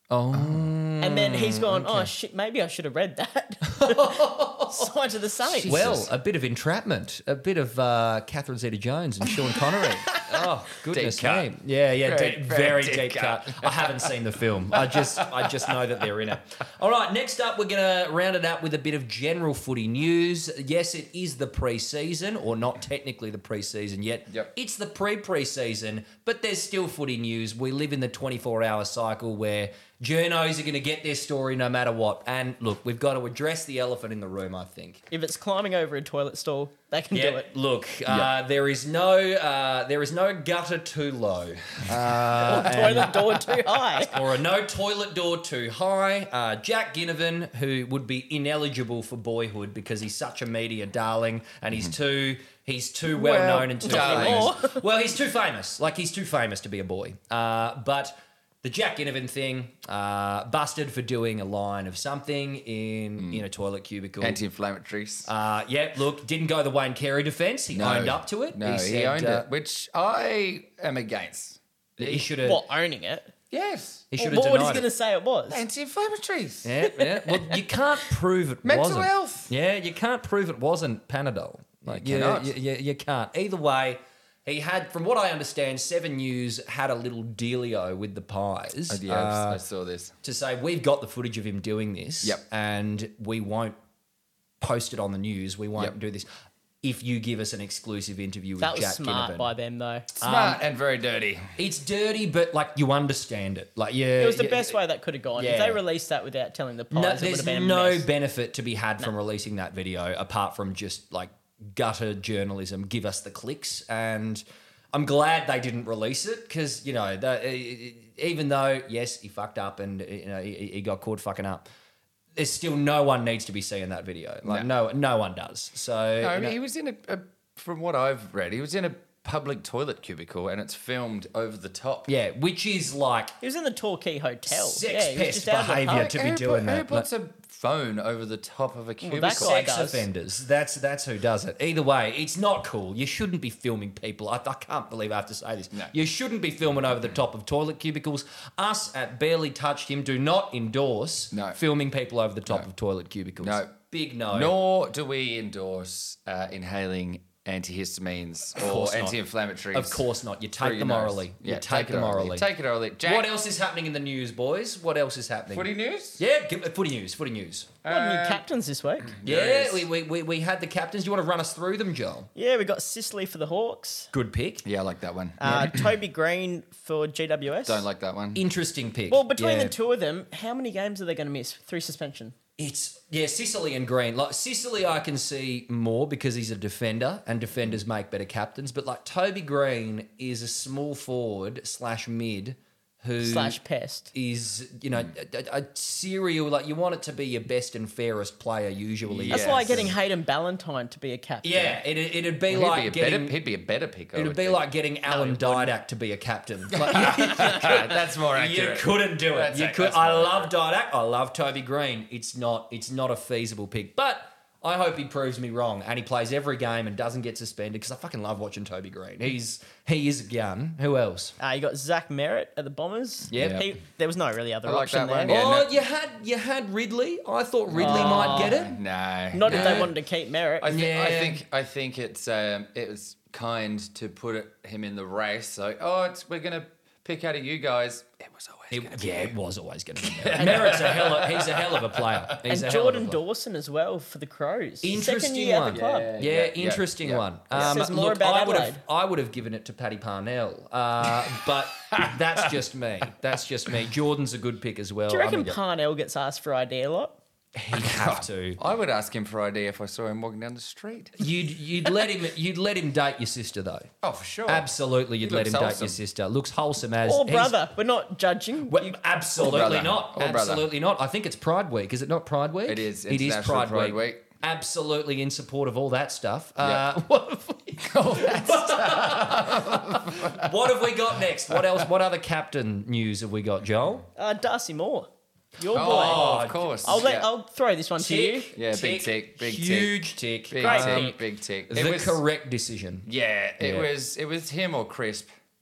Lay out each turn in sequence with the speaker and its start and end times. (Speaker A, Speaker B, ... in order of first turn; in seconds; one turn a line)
Speaker A: 0.1-2.1
Speaker B: 1.0-6.0
Speaker A: 3.7-4.9
Speaker C: 5.5-6.1
Speaker A: 5.6-35.0
Speaker C: 10.9-11.5
Speaker C: 12.0-14.2
Speaker C: 14.7-16.0
Speaker B: 35.1-37.5
Speaker A: 37.1-64.4
Speaker B: 42.4-44.2
Speaker C: 53.1-54.6
Speaker B: 53.8-54.8
Speaker C: 63.2-63.4
Speaker C: 64.2-65.3
Speaker A: 65.3-69.5
Speaker C: 67.8-72.3
Speaker A: 72.0-72.6
Speaker B: 72.4-73.3
Speaker C: 73.5-74.1
Speaker A: 74.1-74.9
Speaker B: 74.2-75.6
Speaker C: 75.5-76.7
Speaker A: 76.6-89.6
Speaker B: 76.9-77.6
Speaker C: 78.6-79.5
Speaker C: 81.9-82.5
Speaker C: 88.9-90.2
Speaker A: 90.2-93.8
Speaker A: 94.6-96.3
Speaker A: 96.8-99.5
Speaker B: 98.6-100.1
Speaker C: 100.2-101.6
Speaker A: 100.2-100.6
Speaker A: 101.6-104.8
Speaker B: 104.2-108.1
Speaker A: 105.4-105.8
Speaker A: 106.9-121.7
Speaker A: 122.4-126.6
Speaker C: 124.5-124.7
Speaker C: 126.2-132.1
Speaker A: 132.1-133.3
Speaker B: 133.4-136.1
Speaker A: 134.5-137.1
Speaker C: 135.9-139.6
Speaker B: 139.0-140.1
Speaker A: 139.2-154.6
Speaker C: 151.3-151.6
Speaker C: 153.4-153.7
Speaker C: 154.3-160.1
Speaker A: 158.6-159.2
Speaker A: 159.7-162.5
Speaker C: 160.6-163.3
Speaker A: 163.0-167.7
Speaker C: 165.5-166.2
Speaker C: 167.8-168.4
Speaker B: 167.9-169.1
Speaker C: 169.1-169.9
Speaker A: 169.2-172.3
Speaker B: 172.3-174.1
Speaker A: 174.1-174.7
Speaker C: 174.6-175.8
Speaker B: 175.4-177.8
Speaker A: 175.4-175.8
Speaker C: 177.7-178.4
Speaker A: 178.3-179.7
Speaker B: 179.1-182.3
Speaker A: 182.6-193.6
Speaker B: 193.2-194.1
Speaker A: 194.1-199.9
Speaker C: 199.1-199.9
Speaker B: 199.3-201.8
Speaker A: 201.4-203.4
Speaker C: 202.5-205.7
Speaker A: 204.1-221.4
Speaker C: 206.7-210.5
Speaker B: 221.4-225.3
Speaker A: 223.3-223.7
Speaker C: 223.3-223.7
Speaker C: 224.6-225.7
Speaker A: 225.3-228.8
Speaker C: 227.7-229.9
Speaker B: 227.8-228.6
Speaker B: 229.3-230.7
Speaker A: 229.5-229.9
Speaker C: 230.6-239.4
Speaker A: 230.7-231.4
Speaker A: 238.7-243.2
Speaker C: 240.0-242.4
Speaker B: 240.4-240.7
Speaker B: 242.4-246.1
Speaker A: 244.8-255.6
Speaker C: 245.7-247.9
Speaker B: 247.6-248.8
Speaker C: 251.9-252.6
Speaker B: 255.1-257.2
Speaker A: 257.6-258.6
Speaker C: 257.7-261.2
Speaker A: 261.2-263.9
Speaker C: 264.0-264.7
Speaker A: 264.5-267.6
Speaker C: 265.2-266.0
Speaker B: 267.0-268.9
Speaker A: 268.7-284.1
Speaker C: 269.4-270.7
Speaker C: 272.7-274.3
Speaker C: 276.6-276.9
Speaker C: 277.8-280.5
Speaker C: 281.5-281.8
Speaker B: 284.2-288.5
Speaker A: 285.7-287.0
Speaker C: 285.7-287.3
Speaker A: 288.0-291.1
Speaker C: 288.6-292.2
Speaker B: 290.6-291.2
Speaker A: 291.7-293.1
Speaker C: 293.1-295.3
Speaker A: 293.6-293.9